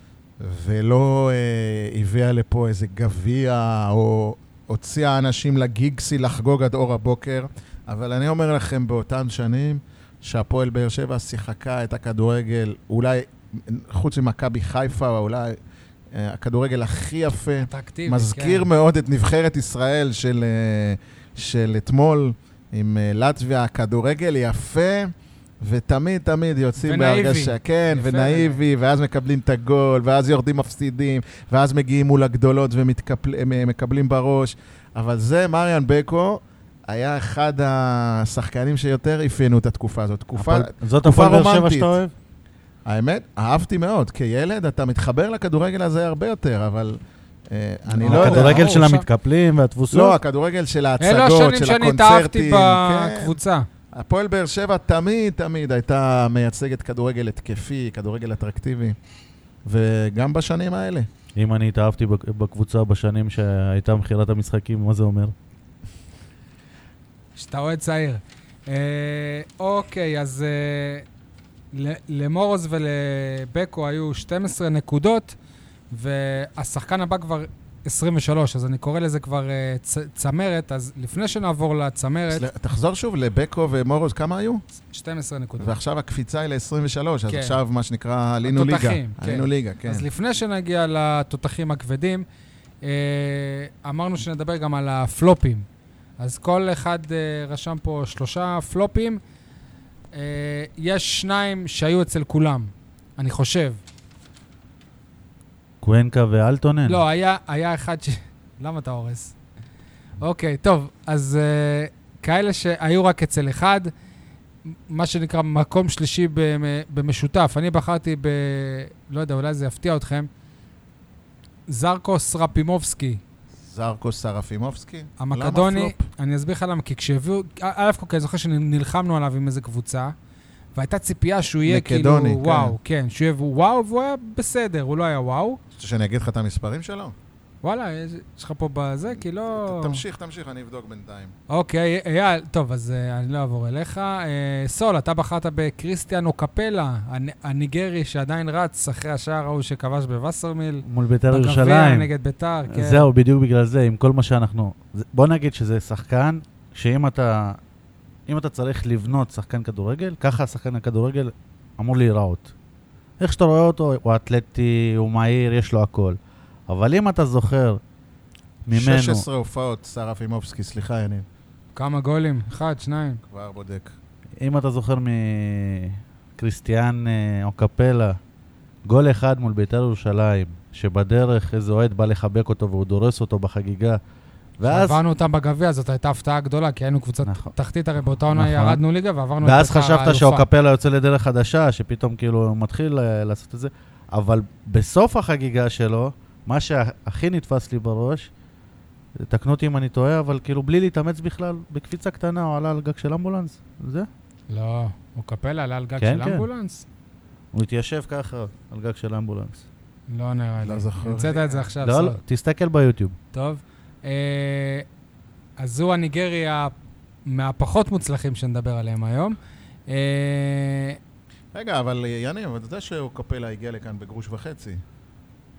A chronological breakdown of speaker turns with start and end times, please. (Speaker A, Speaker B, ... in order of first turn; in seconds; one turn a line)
Speaker A: 0.4-15.6
Speaker A: 16.1-41.9
Speaker B: 17.6-18.7
Speaker B: 26.8-28.6
Speaker C: 40.4-42.1
Speaker A: 42.9-48.8
Speaker C: 47.9-50.2
Speaker B: 48.0-49.0
Speaker A: 49.9-53.4
Speaker B: 51.0-53.7
Speaker A: 53.9-59.0
Speaker A: 59.6-61.1
Speaker C: 61.4-65.3
Speaker B: 67.3-71.0
Speaker B: 71.7-75.4
Speaker B: 75.9-82.5
Speaker A: 82.3-84.6
Speaker B: 84.9-85.7
Speaker A: 85.6-90.0
Speaker B: 87.3-87.6
Speaker B: 88.5-92.2
Speaker B: 92.8-95.7
Speaker B: 96.2-99.2
Speaker B: 100.1-103.8
Speaker C: 105.8-107.0
Speaker B: 106.8-109.3
Speaker B: 110.2-113.9
Speaker B: 114.9-120.3
Speaker B: 121.7-123.2
Speaker A: 123.6-126.0
Speaker B: 125.2-130.1
Speaker B: 130.7-135.6
Speaker A: 131.7-132.8
Speaker A: 135.8-137.1
Speaker B: 137.6-140.0
Speaker A: 139.1-141.3
Speaker B: 141.5-153.1
Speaker C: 150.8-152.1
Speaker C: 152.7-157.6
Speaker C: 158.3-162.5
Speaker C: 163.2-166.2
Speaker C: 166.7-167.8
Speaker C: 168.7-169.2
Speaker A: 168.7-171.2
Speaker B: 171.7-173.2
Speaker A: 173.2-173.9
Speaker C: 174.4-178.2
Speaker C: 178.9-184.0
Speaker C: 184.6-185.0
Speaker B: 184.6-190.4
Speaker C: 187.2-187.5
Speaker C: 188.3-188.8
Speaker C: 189.4-198.3
Speaker C: 199.2-204.1
Speaker B: 204.5-206.8
Speaker C: 206.0-206.5
Speaker C: 207.5-209.6
Speaker B: 210.1-212.2
Speaker A: 210.6-211.7
Speaker C: 211.8-213.1
Speaker B: 213.3-214.8
Speaker B: 215.6-216.7
Speaker B: 217.2-219.3
Speaker B: 219.9-221.0
Speaker A: 221.5-224.8